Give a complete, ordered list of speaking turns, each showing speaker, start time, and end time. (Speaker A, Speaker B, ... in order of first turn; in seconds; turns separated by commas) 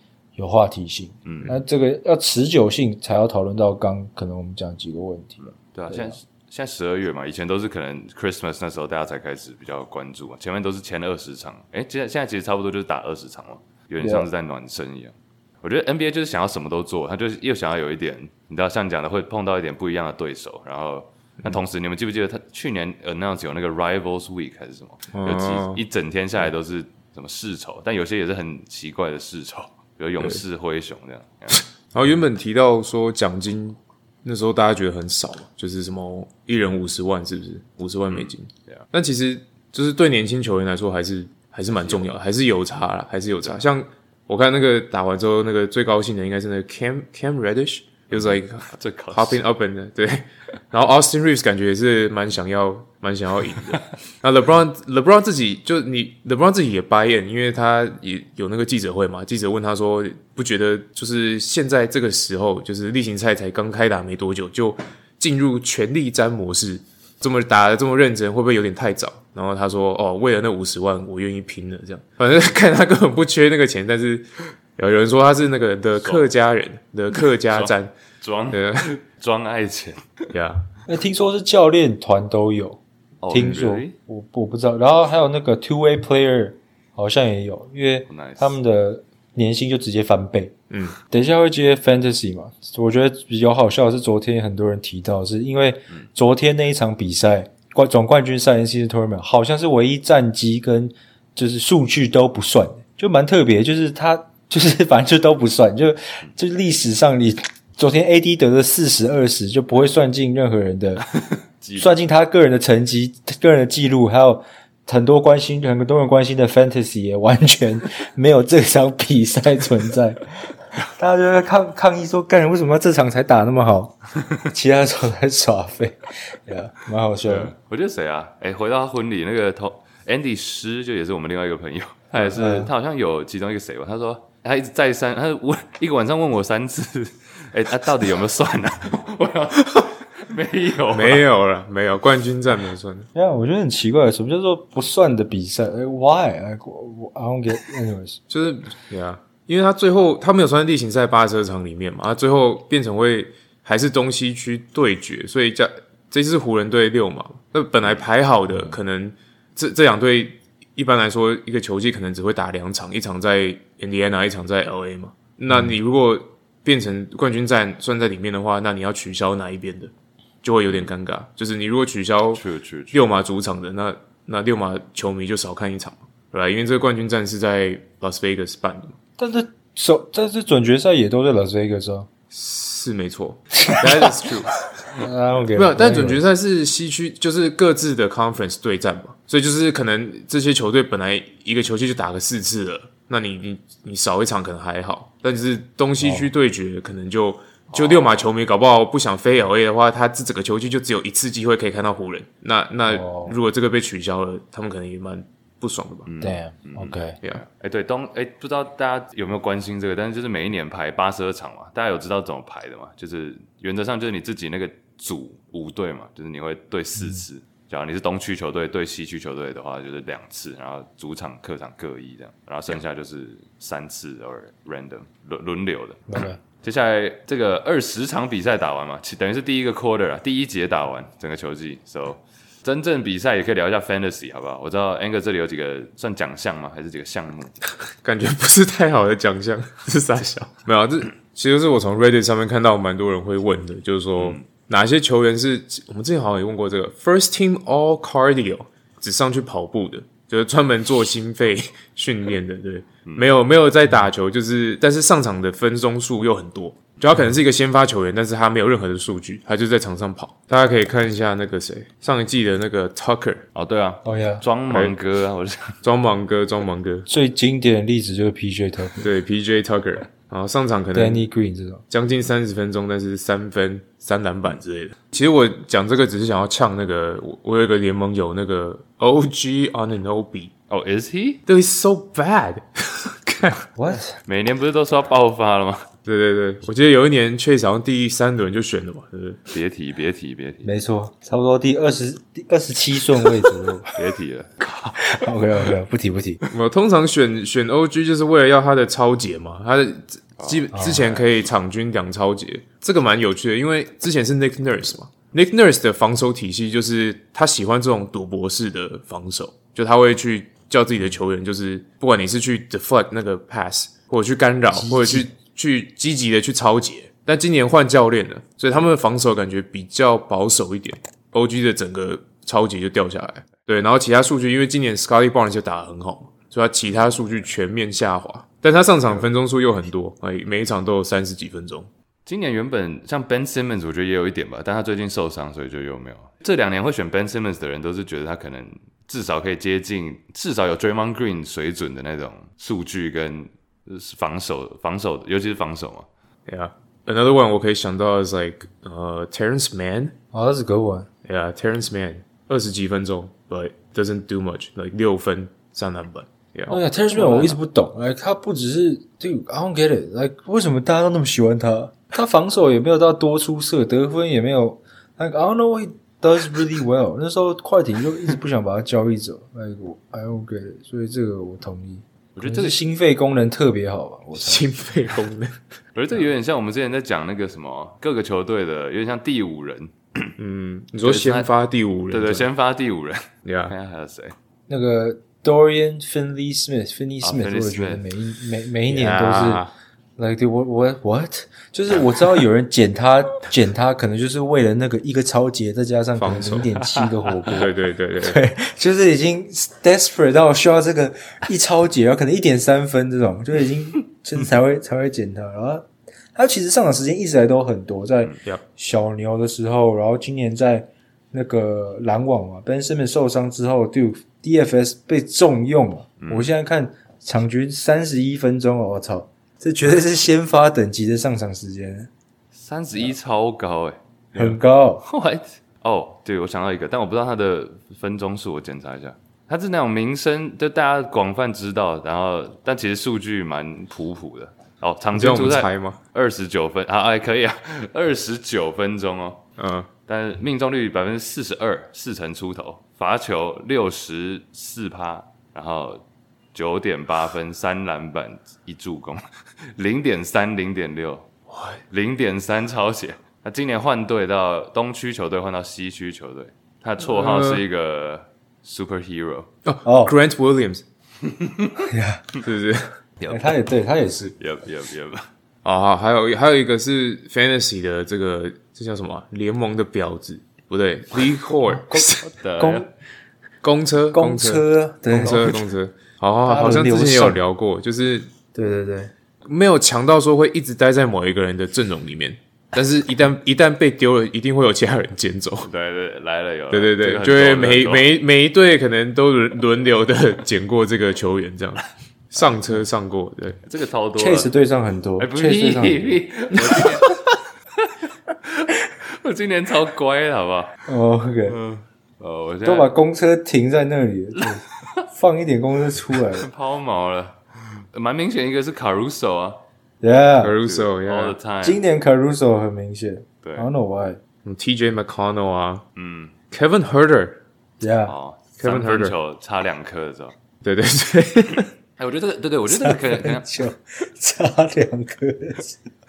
Speaker A: 0.4-6.2, Speaker B: 1.3-1.6, Speaker B: 5.4-31.6, Speaker A: 14.0-14.3, Speaker C: 25.1-25.8, Speaker C: 31.5-77.9, Speaker B: 38.1-38.8, Speaker B: 41.7-42.1, Speaker B: 48.1-49.5, Speaker B: 76.0-76.2, Speaker B: 77.5-80.3, Speaker C: 78.5-78.9, Speaker C: 80.3-80.7, Speaker A: 80.9-90.6, Speaker B: 83.2-84.0, Speaker B: 88.1-88.6, Speaker C: 90.7-91.0, Speaker A: 91.1-111.1, Speaker B: 111.1-112.0, Speaker A: 111.8-127.5, Speaker B: 127.2-141.3, Speaker A: 132.2-132.7, Speaker C: 140.9-143.1, Speaker A: 143.2-148.2, Speaker C: 148.3-169.9, Speaker C: 170.4-179.0, Speaker B: 172.3-173.1, Speaker A: 179.2-182.1, Speaker C: 182.3-184.6, Speaker A: 183.6-186.2, Speaker C: 185.4-206.1, Speaker A: 196.0-196.3, Speaker A: 202.9-203.4, Speaker B: 206.1-237.6, Speaker A: 206.2-207.2, Speaker A: 226.1-226.4, Speaker C: 238.0-263.4, Speaker B: 244.2-244.5, Speaker B: 263.6-265.8, Speaker A: 264.1-264.4, Speaker C: 265.8-267.1, Speaker A: 267.1-269.1, Speaker C: 269.0-271.3, Speaker A: 270.9-271.8, Speaker C: 271.9-280.5, Speaker B: 280.7-281.4, Speaker C: 281.5-283.7, Speaker A: 283.8-284.2, Speaker B: 284.2-285.9, Speaker C: 286.1-289.5, Speaker B: 289.5-290.7, Speaker A: 290.6-294.0, Speaker B: 293.9-295.0, Speaker A: 295.0-296.4, Speaker C: 296.5-331.9, Speaker B: 300.4-301.3, Speaker A: 300.7-301.0, Speaker A: 314.8-315.3, Speaker B: 332.3-346.1, Speaker C: 346.5-350.1, Speaker A: 350.3-351.1, Speaker C: 351.2-357.6, Speaker A: 356.7-374.7, Speaker B: 357.1-357.5, Speaker B: 372.4-372.8, Speaker C: 374.3-375.6, Speaker B: 375.9-380.3, Speaker C: 380.4-382.5, Speaker B: 381.0-381.5, Speaker B: 382.1-384.3, Speaker C: 383.4-383.7, Speaker A: 384.7-422.1, Speaker B: 387.2-388.1, Speaker C: 388.9-389.7, Speaker C: 396.2-396.7, Speaker C: 397.5-398.4, Speaker B: 416.2-416.5, Speaker B: 422.5-439.4, Speaker A: 424.4-425.0, Speaker C: 435.1-436.0, Speaker C: 439.6-439.9, Speaker B: 440.1-451.3, Speaker C: 451.5-451.8, Speaker B: 451.9-459.5, Speaker C: 457.0-457.6, Speaker C: 459.6-460.8, Speaker A: 459.9-460.1, Speaker B: 461.2-461.9, Speaker A: 461.9-462.3, Speaker C: 462.4-462.9, Speaker B: 463.2-463.5, Speaker A: 463.3-464.3, Speaker B: 464.4-465.3, Speaker C: 465.6-472.2, Speaker A: 471.7-472.9, Speaker B: 472.2-472.9, Speaker C: 473.6-478.3, Speaker A: 474.1-475.6, Speaker A: 476.5-477.4, Speaker A: 478.6-479.1, Speaker C: 479.4-485.7, Speaker B: 485.6-488.1, Speaker C: 486.7-493.6, Speaker B: 493.7-494.5, Speaker A: 494.2-496.2, Speaker B: 495.2-497.1, Speaker B: 498.4-500.7, Speaker A: 500.9-501.6, Speaker B: 501.5-502.9, Speaker A: 502.6-506.5, Speaker B: 506.3-509.6, Speaker A: 510.0-510.6, Speaker C: 510.4-511.4, Speaker B: 510.6-511.8, Speaker A: 511.6-514.2, Speaker B: 513.4-513.7, Speaker C: 514.5-515.8, Speaker B: 516.0-516.4, Speaker C: 516.5-517.4, Speaker A: 517.8-518.1, Speaker B: 518.1-520.3, Speaker C: 518.6-519.1, Speaker C: 520.6-521.7, Speaker B: 522.0-523.5, Speaker A: 522.7-525.8